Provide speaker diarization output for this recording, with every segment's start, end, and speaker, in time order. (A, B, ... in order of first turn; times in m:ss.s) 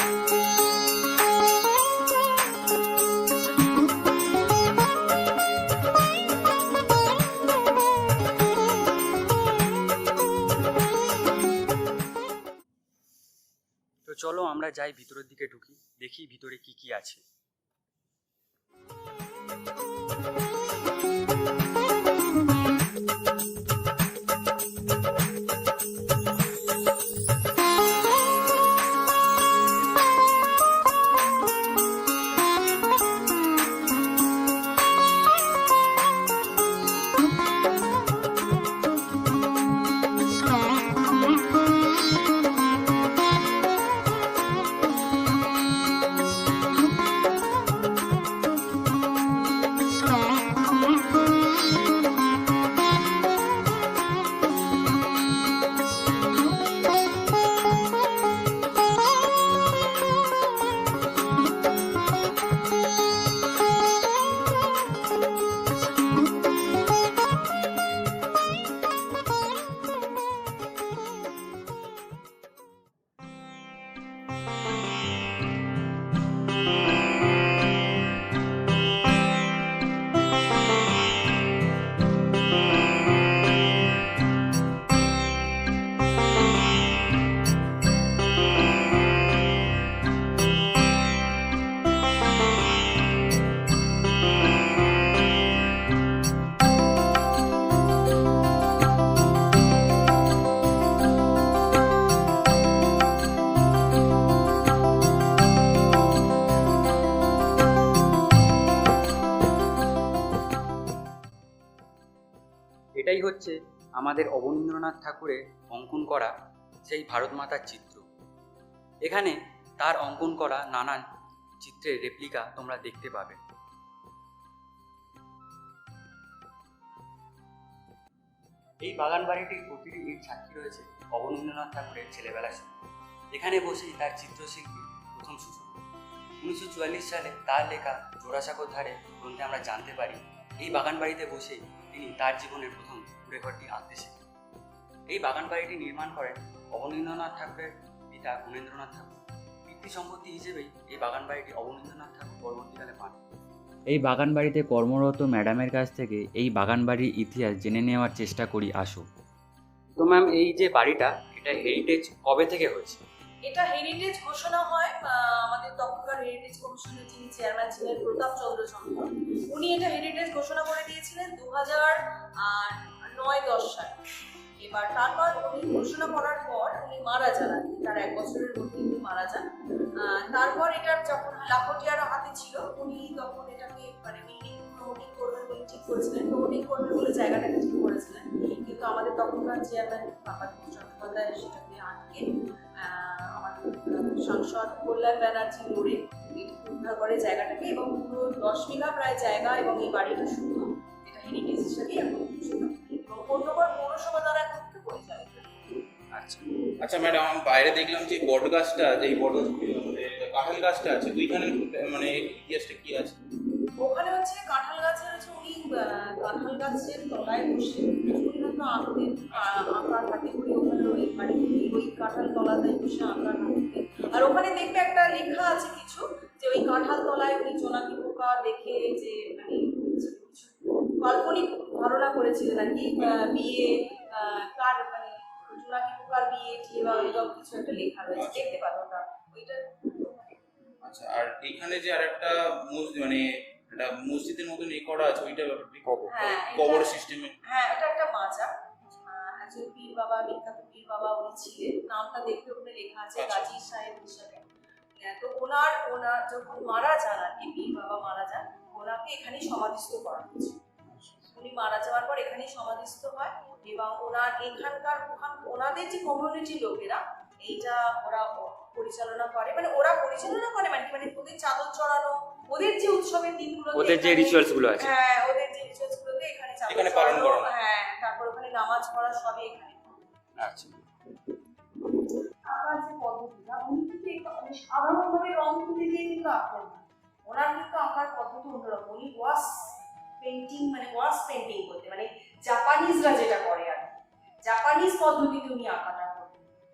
0:14.0-0:17.2 A
1:53.0-1:56.3 A
1:56.8-1:58.0 A
1:59.0-2:01.0 A
2:01.6-2:03.4 A
2:08.8-2:12.7 A
2:13.3-2:15.8 A
2:16.4-2:24.1 A
2:25.1-2:33.2 A
2:33.9-2:39.0 A
2:40.0-2:43.0 A
2:43.4-2:53.9 B
2:54.6-3:25.8 B
3:26.1-3:26.5 A
3:26.8-3:33.2 C
3:33.8-4:00.4 B
3:39.3-3:39.7 C
3:44.0-3:44.3 C
3:53.0-3:53.2 C
3:58.1-3:58.6 C
4:00.8-4:07.4 C
4:05.8-4:06.1 A
4:06.1-4:08.5 B
4:09.0-4:14.4 B
4:13.1-4:13.6 C
4:15.0-4:20.6 B
4:20.9-4:21.3 C
4:21.3-4:40.0 B
4:33.7-4:34.9 A
4:36.7-4:37.5 C
4:40.4-4:40.8 A
4:42.4-4:56.5 B